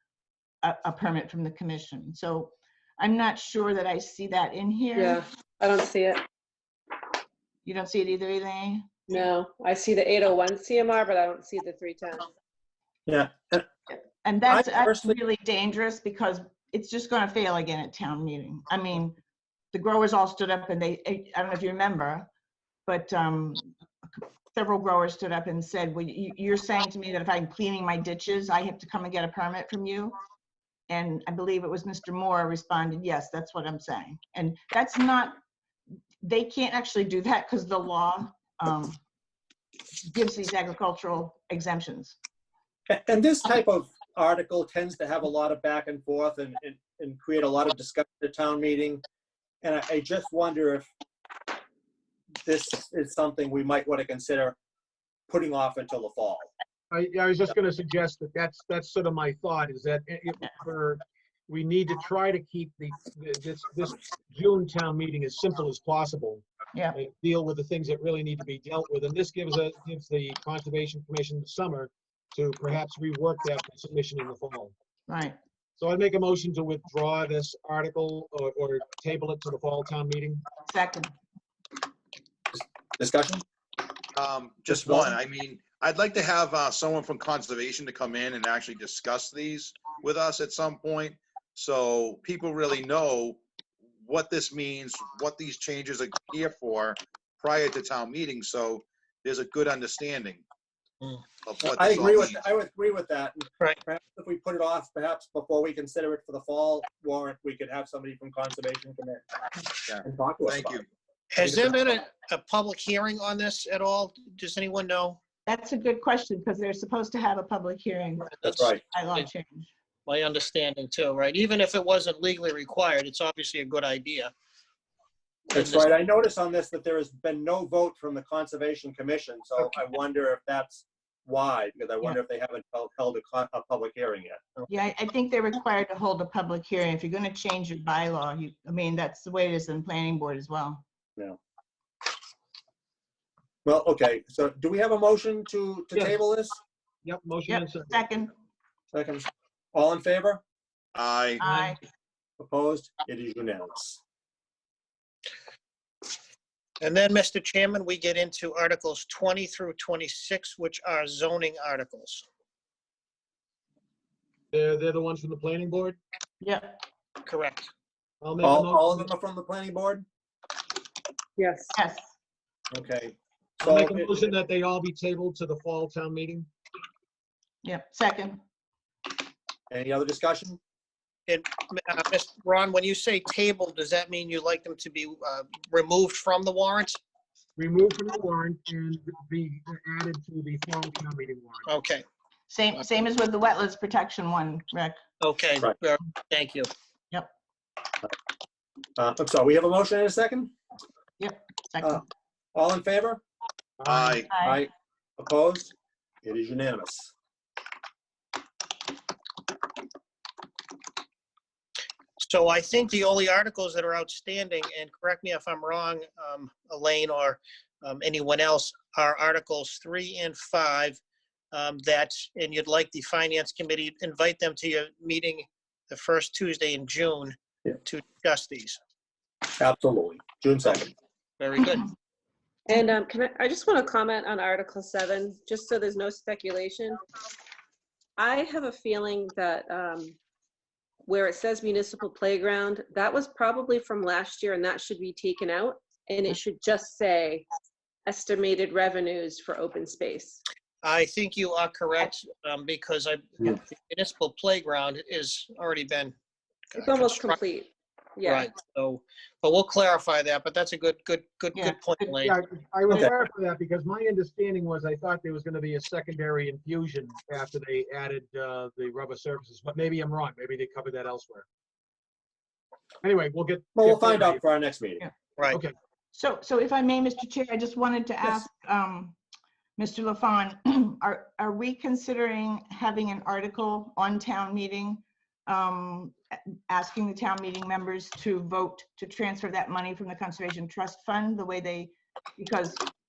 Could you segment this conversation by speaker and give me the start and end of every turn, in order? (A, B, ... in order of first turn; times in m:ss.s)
0:00.6-0:05.2 A
0:04.9-0:06.2 B
0:07.6-0:08.9 A
0:09.1-0:12.3 B
0:13.1-0:13.7 C
0:13.9-0:19.2 A
0:14.5-0:15.2 C
0:19.7-0:22.3 A
0:22.8-0:30.2 A
0:30.9-0:35.4 A
0:36.2-0:39.0 A
0:40.0-0:42.2 A
0:42.9-0:49.0 C
0:49.6-0:50.9 C
0:52.4-0:54.6 C
0:55.3-0:56.5 C
0:56.9-1:14.7 D
1:15.1-1:15.4 A
1:15.8-1:20.4 D
1:20.6-1:21.1 A
1:22.5-1:23.4 C
1:24.1-1:33.4 E
1:24.7-1:25.1 C
1:34.0-1:40.4 E
1:41.4-1:42.4 E
1:41.6-1:49.3 C
1:49.8-1:50.8 E
1:50.0-1:50.8 C
1:51.3-1:55.2 F
1:51.4-1:51.8 C
1:55.4-1:59.7 A
1:58.4-1:58.8 C
2:00.0-2:04.3 F
2:05.5-2:14.7 C
2:05.5-2:05.9 F
2:14.7-2:20.8 A
2:23.6-2:26.6 C
2:27.0-2:28.0 D
2:27.5-2:28.3 A
2:28.9-2:30.4 C
2:30.9-2:31.4 E
2:31.4-2:31.8 A
2:31.4-2:31.7 D
2:32.4-2:34.0 C
2:36.8-2:42.2 F
2:44.5-2:46.0 D
2:46.4-2:46.8 A
2:47.2-2:47.7 F
2:48.2-2:49.1 D
2:48.4-2:50.0 C
2:51.4-2:51.8 B
2:51.7-2:52.1 A
2:52.7-2:54.3 C
2:53.6-2:56.5 D
2:57.6-2:58.4 A
2:59.7-3:00.6 C
3:01.3-3:07.0 F
3:07.6-3:11.7 D
3:11.6-3:12.0 F
3:12.5-3:15.0 A
3:15.2-3:16.7 F
3:19.0-3:20.5 C
3:21.2-3:22.0 A
3:22.5-3:23.2 C
3:23.8-3:24.2 D
3:23.8-3:24.3 E
3:24.3-3:24.6 A
3:24.3-3:25.7 C
3:26.2-3:27.1 C
3:32.2-3:41.0 F
3:41.5-3:48.8 F
3:49.6-3:50.9 C
3:51.4-3:51.9 F
3:52.7-3:57.0 B
3:58.2-4:00.2 B
4:01.0-4:07.4 B
4:08.0-4:10.4 B
4:10.8-4:16.1 F
4:16.7-4:17.4 F
4:16.8-4:18.5 B
4:18.2-4:22.3 F
4:21.5-4:22.1 A
4:22.2-4:31.4 D
4:33.0-4:34.4 D
4:33.8-4:35.0 C
4:36.1-4:39.2 A
4:39.8-4:52.8 A